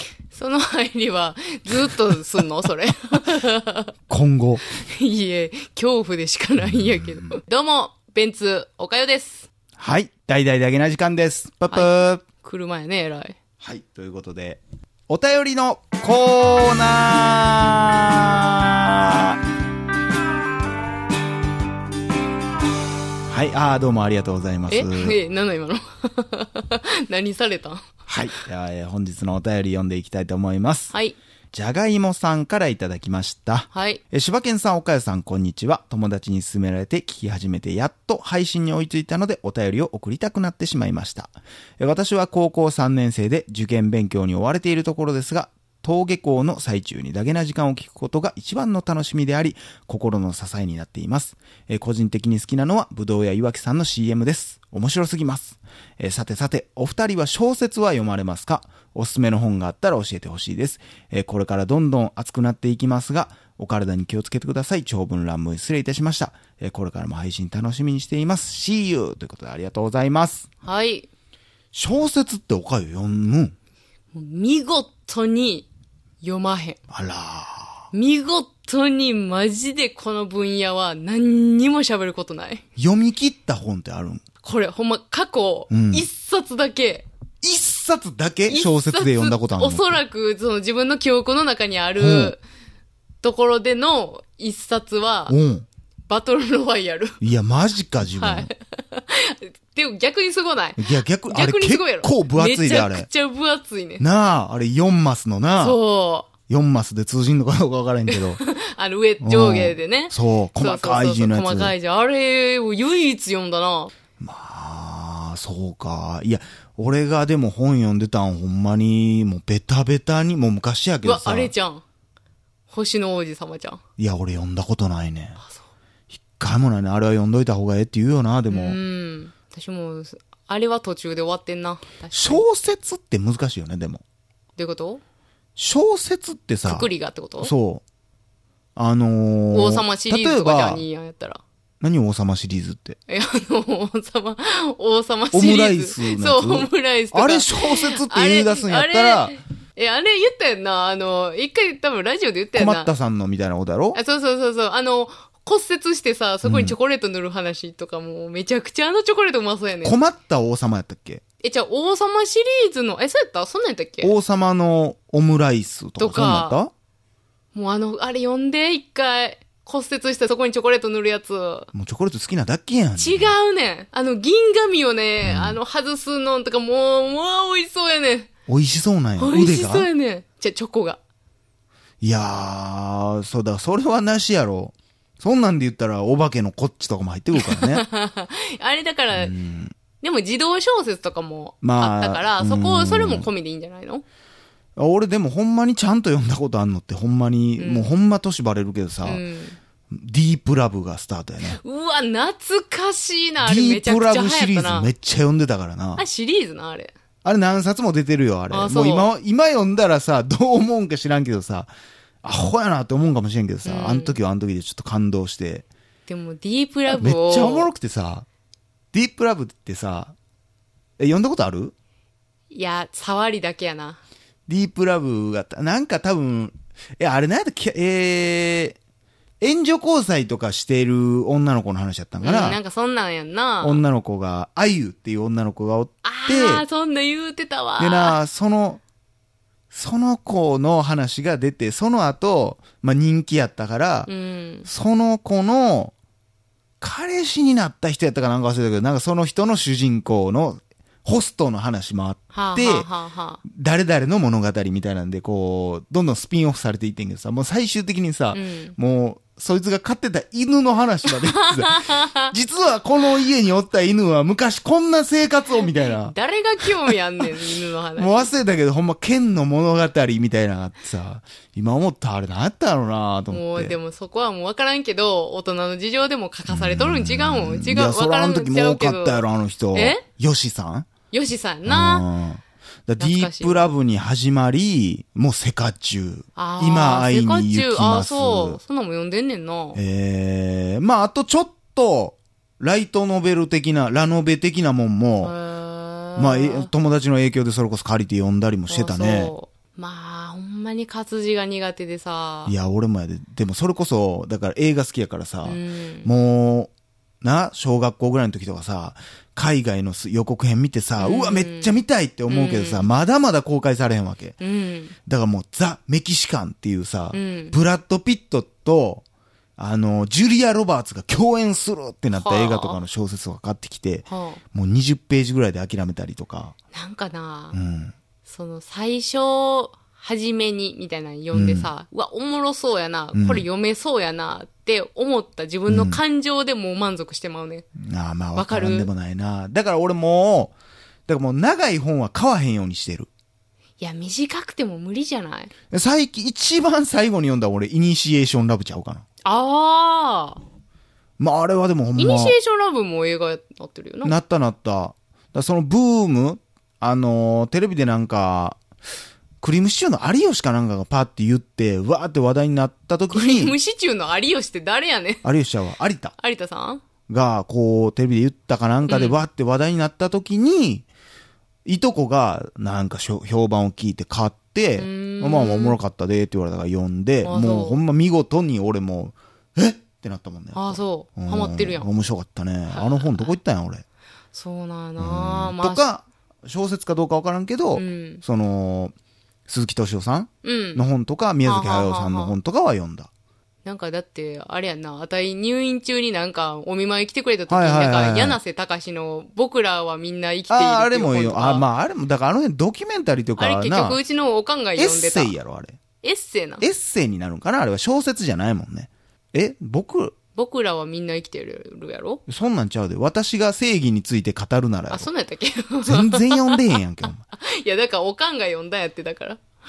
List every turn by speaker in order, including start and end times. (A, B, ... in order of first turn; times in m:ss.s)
0:00.3-0:03.9 A
0:04.1-0:04.6 B
0:04.7-0:09.5 A
0:06.6-0:07.3 B
0:09.8-0:12.2 B
0:11.7-0:13.4 A
0:13.6-0:19.4 B
0:23.3-0:25.2 B
0:24.7-0:27.9 A
0:28.1-0:30.9 B
0:30.9-0:31.2 A
0:31.5-1:10.5 B
0:33.7-0:34.0 A
1:10.6-1:11.1 A
1:11.7-1:13.5 B
1:14.1-1:15.7 A
1:16.2-1:16.8 A
1:16.9-1:17.9 B
1:17.9-1:22.6 A
1:22.8-1:24.2 B
1:24.4-1:27.1 A
1:25.7-1:26.1 B
1:27.4-1:30.0 B
1:28.5-1:32.4 A
1:32.0-1:32.4 B
1:33.2-1:35.4 A
1:35.3-1:35.6 B
1:36.1-1:37.2 A
1:37.2-1:38.5 B
1:38.2-1:44.0 A
1:40.8-1:43.1 B
1:44.0-1:45.8 B
1:45.6-1:46.3 A
1:46.5-1:48.4 B
1:48.1-1:53.9 A
1:49.2-1:51.7 B
1:54.2-2:01.5 B
2:01.0-2:01.8 A
2:02.7-2:03.8 A
2:04.0-2:05.4 B
2:06.1-2:08.8 B
2:08.5-2:12.4 A
2:12.1-2:14.0 B
2:14.6-2:15.0 A
2:15.6-2:17.8 B
2:16.6-2:17.5 A
2:18.8-2:20.8 B
2:19.5-2:21.4 A
2:21.8-2:23.0 B
2:23.1-2:32.9 A
2:25.3-2:29.4 B
2:32.5-2:34.0 B
2:33.9-2:40.0 A
2:36.4-2:36.8 B
2:39.8-2:41.2 B
2:41.4-2:44.1 A
2:44.0-2:46.7 B
2:46.0-2:46.6 A
2:47.5-2:51.7 A
2:51.7-2:53.3 B
2:53.0-2:58.3 A
2:55.2-2:55.6 B
2:58.5-2:59.9 B
2:59.2-3:01.0 A
3:02.0-3:07.8 B
3:07.3-3:09.3 A
3:09.1-3:09.7 B
3:10.0-3:14.0 A
3:11.6-3:13.3 B
3:14.8-3:19.2 B
3:17.6-3:17.9 A
3:19.0-3:19.6 A
3:19.9-3:21.6 B
3:21.4-3:24.9 A
3:23.4-3:26.0 B
3:26.0-3:26.9 A
3:27.2-3:31.7 B
3:28.5-3:29.1 A
3:32.2-3:35.6 B
3:33.6-3:34.2 A
3:36.1-3:37.7 A
3:36.9-3:38.2 B
3:38.9-3:40.1 B
3:41.0-3:41.7 B
3:42.5-3:44.0 A
3:44.5-3:48.8 B
3:49.4-3:52.6 B
3:52.2-3:53.8 A
3:53.6-3:56.6 B
3:56.0-3:58.2 A
3:57.8-3:58.8 B
3:59.7-4:04.1 B
4:04.1-4:04.7 A
4:04.7-4:05.9 B
4:06.8-4:12.9 B
4:12.3-4:13.4 A
4:13.4-4:27.2 B
4:18.3-4:18.7 A
4:21.0-4:22.3 A
4:25.5-4:28.3 A
4:28.0-4:33.8 B
4:33.3-4:40.0 A
4:36.5-4:40.9 B
4:41.1-4:42.1 A
4:41.6-4:48.6 B
4:43.0-4:43.7 A
4:46.4-4:49.8 A
4:49.7-4:55.3 B
4:55.2-4:56.7 A
4:56.2-4:59.3 B
4:58.7-5:02.5 A
5:02.4-5:06.7 B
5:05.4-5:06.1 A
5:07.2-5:14.4 B
5:11.0-5:12.9 A
5:14.4-5:15.0 A
5:15.0-5:19.0 B
5:17.1-5:17.6 A
5:19.6-5:26.5 B
5:22.1-5:22.8 A
5:24.1-5:24.4 A
5:26.7-5:27.6 A
5:27.5-5:27.9 B
5:28.2-5:37.6 A
5:31.3-5:31.7 B
5:33.1-5:33.4 B
5:35.7-5:36.0 B
5:37.8-5:40.5 B
5:38.3-5:38.9 A
5:41.1-5:43.1 B
5:43.8-5:45.5 A
5:45.7-5:49.0 B
5:49.2-5:50.4 A
5:51.2-5:52.4 B
5:52.0-5:54.1 A
5:54.0-5:58.6 B
5:59.4-6:03.5 B
6:03.1-6:05.2 A
6:05.2-6:06.1 B
6:06.2-6:06.8 A
6:07.1-6:10.8 B
6:08.9-6:09.2 A
6:11.6-6:23.8 B
6:14.8-6:15.8 A
6:17.2-6:17.8 A
6:20.5-6:21.9 A
6:22.7-6:23.3 A
6:24.3-6:25.8 A
6:25.0-6:28.9 B
6:27.7-6:28.2 A
6:29.5-6:33.1 B
6:30.4-6:30.8 A
6:31.4-6:32.3 A
6:33.6-6:41.6 A
6:37.5-6:38.4 B
6:40.5-6:44.0 B
6:43.4-6:45.3 A
6:44.8-6:45.8 B
6:46.0-6:46.6 A
6:46.6-6:50.2 B
6:50.3-6:52.2 A
6:52.3-6:55.1 B
6:54.9-6:56.8 A
6:55.8-6:57.2 B
6:57.3-6:59.4 A